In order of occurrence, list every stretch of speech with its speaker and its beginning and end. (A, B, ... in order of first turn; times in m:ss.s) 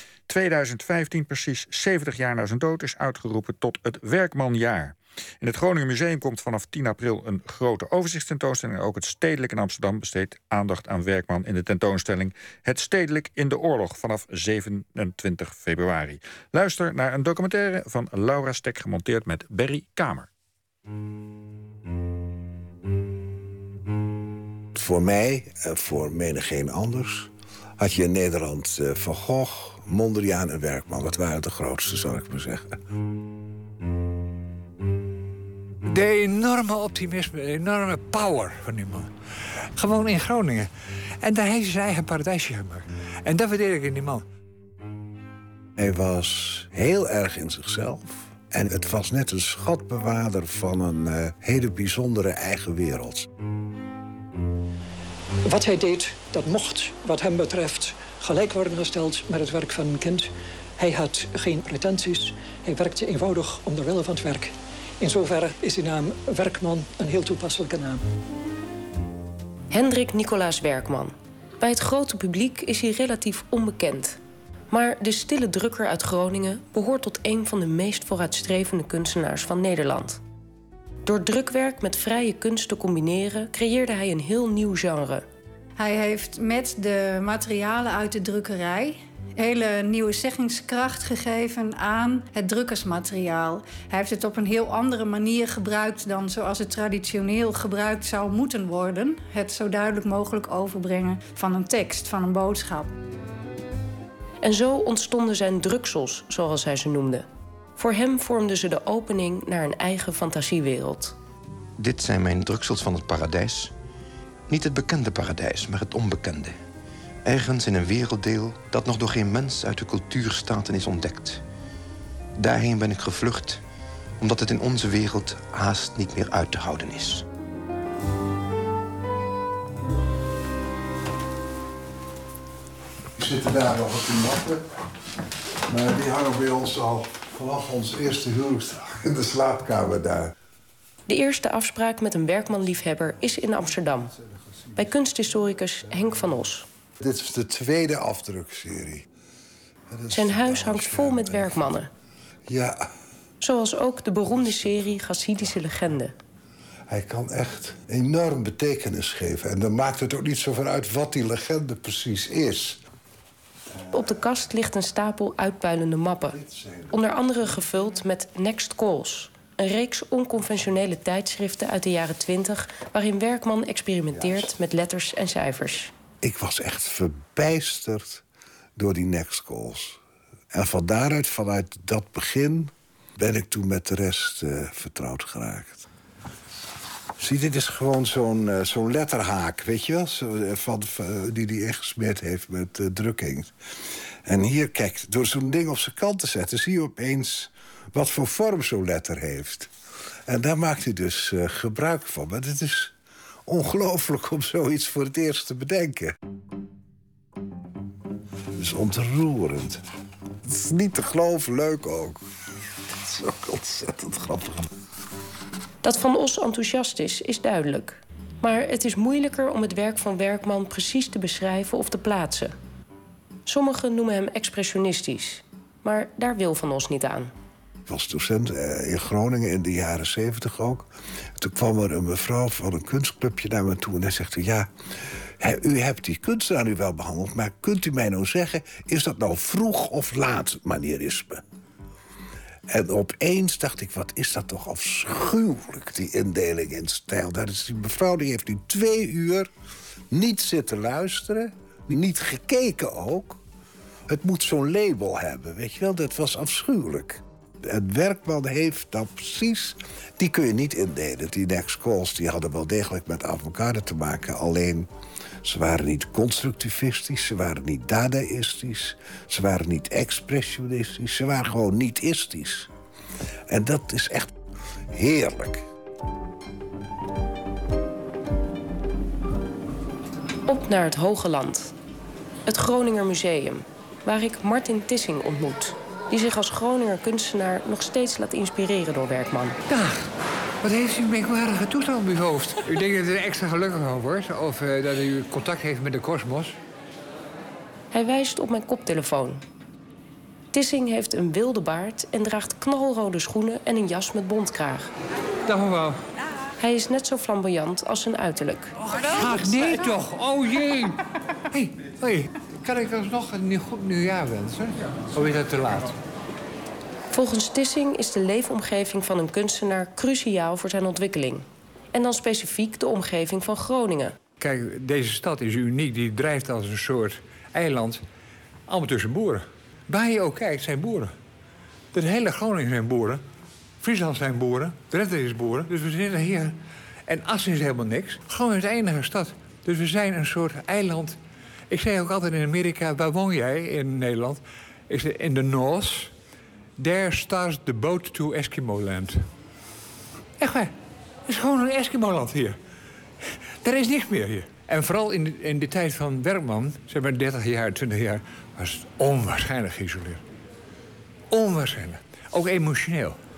0:00.3-0:20.3 A
0:24.7-0:32.7 B
0:35.8-0:39.1 C
0:39.8-0:40.7 C
0:41.2-0:44.2 C
0:45.8-0:53.3 B
0:55.4-1:08.0 D
1:09.7-1:14.2 E
1:14.7-1:20.2 E
1:21.0-1:25.2 E
1:25.8-1:42.9 F
1:44.4-1:47.3 E
1:47.8-1:51.2 E
1:51.8-1:53.7 G
1:54.5-1:56.6 G
1:57.2-2:01.4 G
2:02.4-2:03.6 G
2:04.2-2:07.3 G
2:13.2-2:14.6 B
2:15.7-2:20.3 B
2:21.1-2:24.1 E
2:24.8-2:26.7 E
2:27.0-2:29.1 B
2:29.9-2:31.6 B
2:30.1-2:31.9 E
2:32.5-2:32.9 B
2:33.4-2:36.2 E
2:36.9-2:42.8 B
2:43.9-2:46.4 E
2:46.3-2:47.0 B
2:46.9-2:55.9 E
2:54.2-2:54.5 B
2:56.2-2:58.2 B
2:58.8-3:00.0 B
3:00.5-3:05.8 B
3:07.2-3:13.5 B
3:14.2-3:19.7 B
3:20.3-3:22.9 B
3:23.5-3:26.2 B
3:28.6-3:29.8 B
3:30.4-3:32.2 B
3:32.9-3:34.7 B
3:35.8-3:42.6 E
3:43.5-3:47.3 E
3:47.9-3:54.7 B
3:55.4-4:01.4 B
4:02.7-4:09.5 B
4:10.1-4:13.4 B
4:14.1-4:24.9 B
4:25.4-4:32.7 B
4:33.5-4:34.3 B
4:34.9-4:35.7 B
4:40.5-4:41.7 E
4:42.5-4:49.6 E
4:49.7-4:50.1 C
4:50.6-4:56.6 C
4:57.9-4:59.4 E
5:00.5-5:04.9 E
5:05.4-5:06.0 C
5:06.6-5:08.8 E
5:08.8-5:16.0 C
5:17.1-5:24.2 E
5:24.4-5:28.0 C
5:28.7-5:31.1 C
5:31.9-5:33.2 C
5:33.8-5:41.2 C
5:41.7-5:46.1 C
5:46.8-5:49.3 C
5:50.4-5:50.7 C
5:51.3-5:52.6 C
5:53.6-6:00.2 C
6:01.3-6:03.2 C